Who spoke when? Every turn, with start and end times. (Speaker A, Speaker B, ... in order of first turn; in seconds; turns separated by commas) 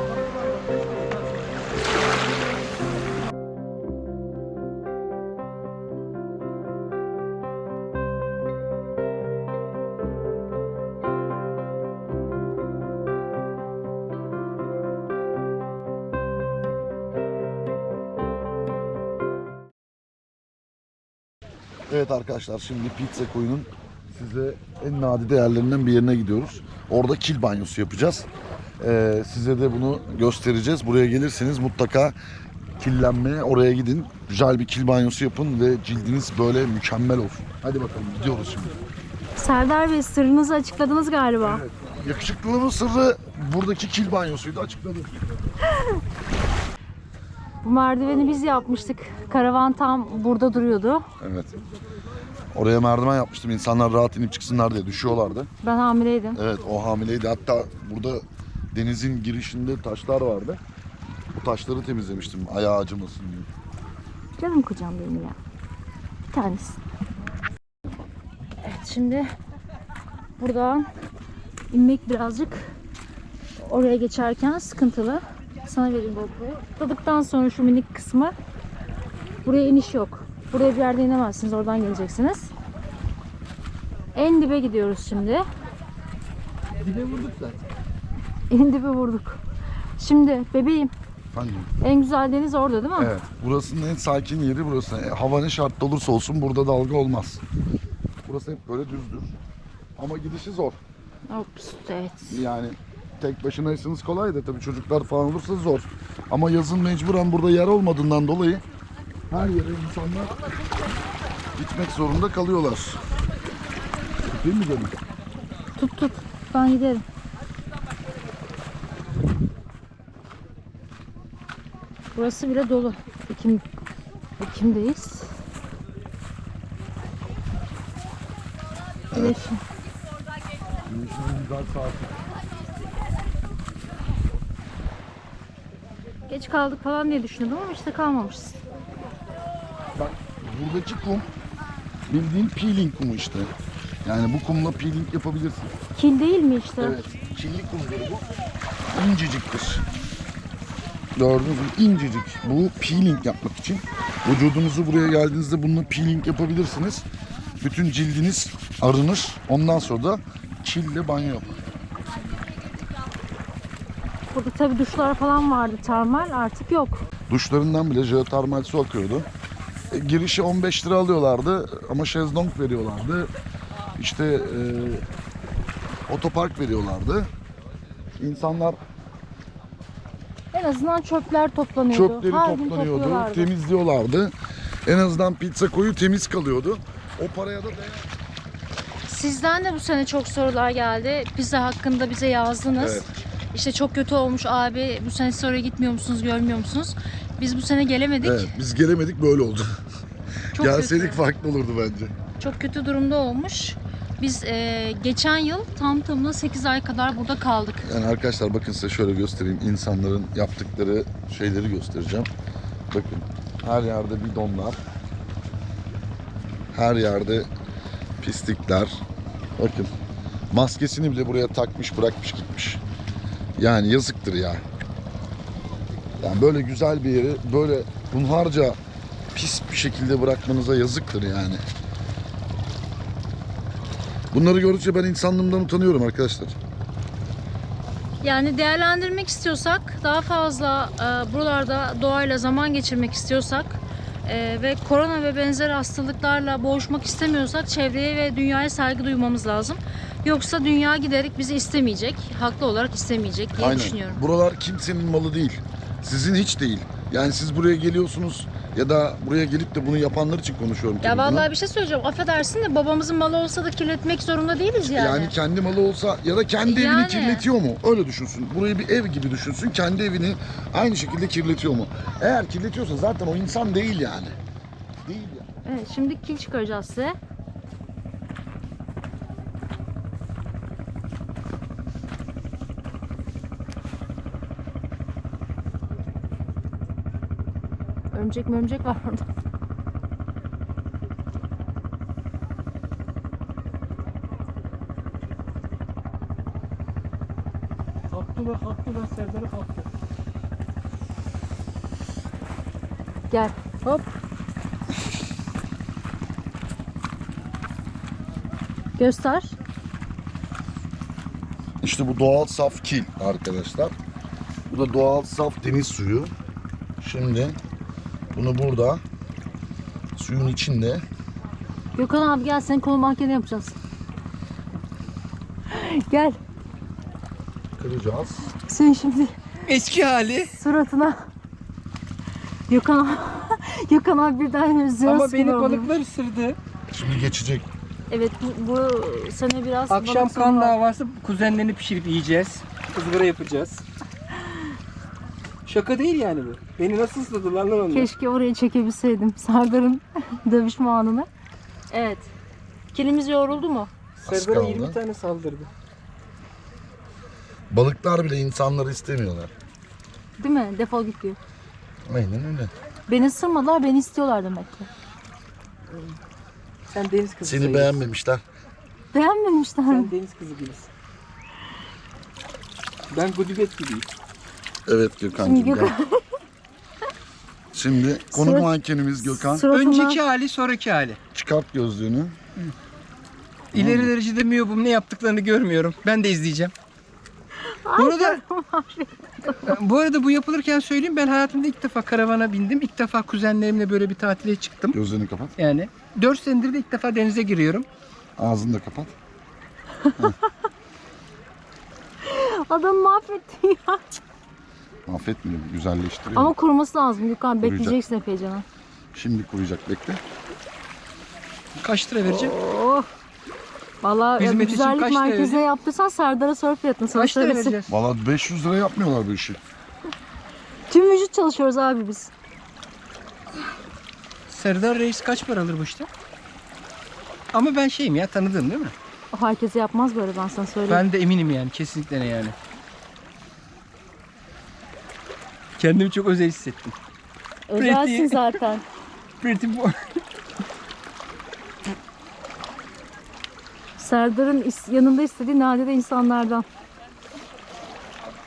Speaker A: 21.9-28.3, Speaker A: 28.8-32.1, Speaker A: 32.8-38.7, Speaker B: 39.4-41.6, Speaker A: 41.4-45.1, Speaker B: 47.6-51.1, Speaker A: 51.2-51.6, Speaker A: 52.5-55.5, Speaker B: 55.6-56.4, Speaker A: 56.4-60.6, Speaker A: 61.4-63.5, Speaker B: 64.4-65.4, Speaker B: 66.3-66.8, Speaker B: 68.6-69.3, Speaker B: 70.4-70.9, Speaker B: 71.7-72.7, Speaker B: 73.6-78.3, Speaker B: 79.4-82.5, Speaker B: 84.2-85.4, Speaker C: 86.8-87.6, Speaker B: 88.5-89.4, Speaker B: 90.0-90.9, Speaker A: 91.3-91.7, Speaker B: 91.8-93.1, Speaker A: 93.0-97.4, Speaker A: 98.2-99.3, Speaker A: 100.0-100.8, Speaker B: 101.3-102.4, Speaker A: 102.3-108.6, Speaker A: 109.3-110.4, Speaker A: 111.6-113.0, Speaker A: 114.2-114.9, Speaker B: 115.8-117.0, Speaker B: 122.2-123.6, Speaker B: 124.4-125.3, Speaker A: 129.1-129.4, Speaker B: 129.1-129.6, Speaker A: 130.8-132.2, Speaker B: 136.3-138.6, Speaker A: 140.0-141.3, Speaker A: 142.1-143.5, Speaker A: 144.1-145.7, Speaker B: 145.9-147.0, Speaker A: 146.8-148.2, Speaker A: 148.9-149.8, Speaker A: 151.2-157.1, Speaker A: 157.6-161.5, Speaker B: 164.3-167.1, Speaker A: 167.3-169.3, Speaker A: 169.9-173.3, Speaker A: 174.0-175.1, Speaker A: 176.1-177.3, Speaker A: 178.2-178.8, Speaker B: 180.5-183.5, Speaker A: 181.9-184.3, Speaker A: 184.9-188.1, Speaker B: 189.1-198.5, Speaker A: 192.8-193.1, Speaker A: 198.2-199.7, Speaker A: 200.5-202.1, Speaker B: 200.6-201.2, Speaker B: 202.4-207.9, Speaker A: 207.8-212.3, Speaker A: 212.9-214.8, Speaker A: 216.7-217.5, Speaker A: 218.2-219.0, Speaker A: 219.6-219.9, Speaker A: 220.5-222.8, Speaker A: 223.6-224.6, Speaker A: 226.2-228.8, Speaker A: 229.3-231.6, Speaker A: 234.3-236.6, Speaker B: 238.2-254.2, Speaker A: 253.6-261.5, Speaker B: 261.0-265.4, Speaker A: 264.9-274.4, Speaker B: 266.6-267.5, Speaker A: 275.1-275.5, Speaker B: 275.6-277.2, Speaker B: 288.1-289.2, Speaker C: 298.1-299.9, Speaker B: 303.3-303.6, Speaker B: 309.0-309.6, Speaker A: 311.8-313.9, Speaker A: 314.7-316.3, Speaker A: 317.0-317.6, Speaker A: 318.3-319.0, Speaker A: 320.2-321.0, Speaker B: 321.9-323.8, Speaker B: 325.7-326.4, Speaker A: 327.8-328.4, Speaker B: 328.5-329.4, Speaker C: 329.7-330.5, Speaker B: 330.5-331.3, Speaker B: 332.7-335.9, Speaker C: 335.1-336.6, Speaker A: 336.9-337.7, Speaker B: 338.1-340.8, Speaker C: 339.9-343.9, Speaker C: 345.7-348.1, Speaker B: 347.9-351.3, Speaker B: 351.9-352.3, Speaker B: 352.9-353.9, Speaker C: 354.2-355.7, Speaker A: 354.3-355.0, Speaker A: 357.7-359.5, Speaker B: 360.4-361.4, Speaker A: 362.1-362.7, Speaker B: 363.1-364.9, Speaker C: 365.9-366.2, Speaker C: 366.9-368.0, Speaker A: 367.4-368.4, Speaker B: 369.1-370.1, Speaker C: 369.9-370.9, Speaker C: 373.1-374.1, Speaker A: 374.9-375.9, Speaker B: 375.4-376.3, Speaker A: 377.7-379.7, Speaker B: 378.3-378.7, Speaker B: 379.2-380.2, Speaker C: 379.7-381.2, Speaker A: 381.3-382.4, Speaker C: 383.7-386.7, Speaker A: 383.7-384.1, Speaker B: 387.8-389.8, Speaker C: 388.0-388.4, Speaker C: 389.6-395.0, Speaker A: 394.9-395.5, Speaker C: 395.6-397.9, Speaker A: 398.4-399.1, Speaker B: 402.2-404.2, Speaker A: 405.1-406.6, Speaker B: 406.4-408.6, Speaker A: 407.6-408.0, Speaker A: 409.1-410.2, Speaker C: 411.8-412.5, Speaker B: 412.3-413.1, Speaker B: 414.0-417.8, Speaker C: 414.4-415.6, Speaker C: 417.1-417.9, Speaker A: 417.9-419.6, Speaker B: 420.9-422.3, Speaker C: 424.5-426.1, Speaker C: 427.5-428.9, Speaker B: 429.3-431.0, Speaker C: 430.9-432.6, Speaker C: 435.8-436.9, Speaker B: 437.7-438.8, Speaker C: 437.8-438.6, Speaker C: 439.4-439.9, Speaker B: 444.0-446.7